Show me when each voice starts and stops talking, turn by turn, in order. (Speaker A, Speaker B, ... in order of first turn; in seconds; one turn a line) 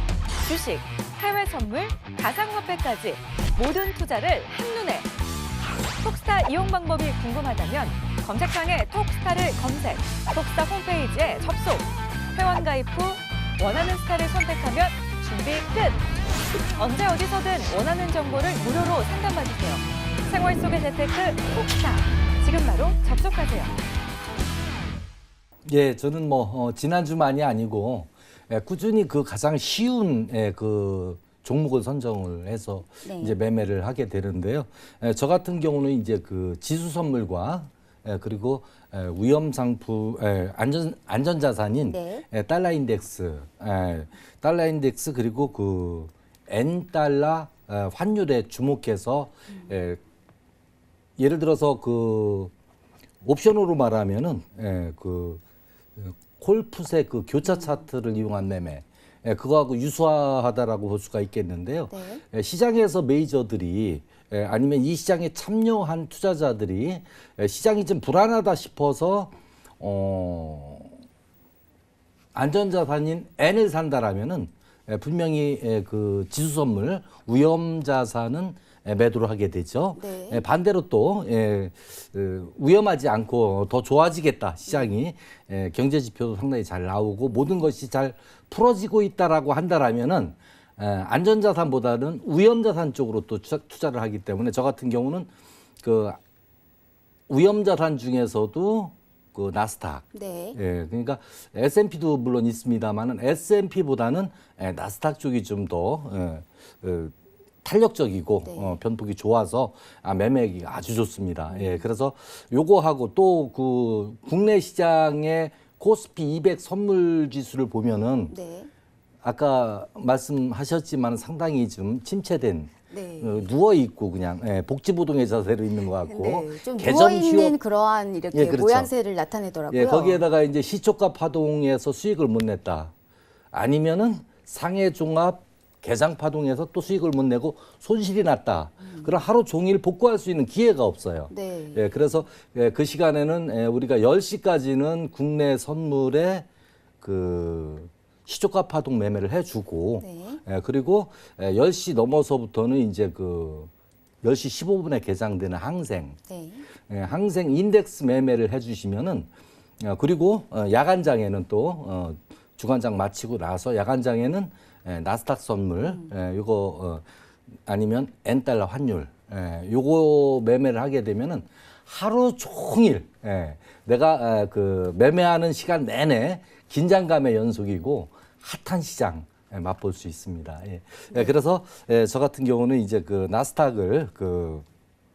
Speaker A: 0.4-5.1
Speaker A: 6.0-16.0
Speaker A: 16.8-23.7
Speaker B: 25.6-50.0
Speaker C: 33.0-33.4
Speaker C: 41.9-42.3
Speaker B: 51.2-52.5
Speaker B: 53.2-55.4
Speaker B: 56.0-70.9
Speaker C: 61.9-62.2
Speaker B: 72.3-95.3
Speaker C: 80.0-80.5
Speaker B: 95.8-96.2
Speaker B: 97.3-118.3
Speaker C: 100.1-100.6
Speaker C: 108.4-108.8
Speaker C: 111.5-111.9
Speaker C: 118.3-118.7
Speaker B: 119.2-127.6
Speaker C: 122.9-123.5
Speaker C: 126.0-130.2
Speaker B: 128.3-128.9
Speaker B: 129.7-132.9
Speaker B: 133.5-146.5
Speaker C: 138.8-139.2
Speaker C: 141.3-142.0
Speaker B: 147.0-153.7
Speaker C: 150.0-150.4
Speaker B: 154.2-156.2
Speaker C: 156.3-156.7
Speaker B: 156.9-167.0
Speaker C: 165.8-166.1
Speaker B: 167.7-184.6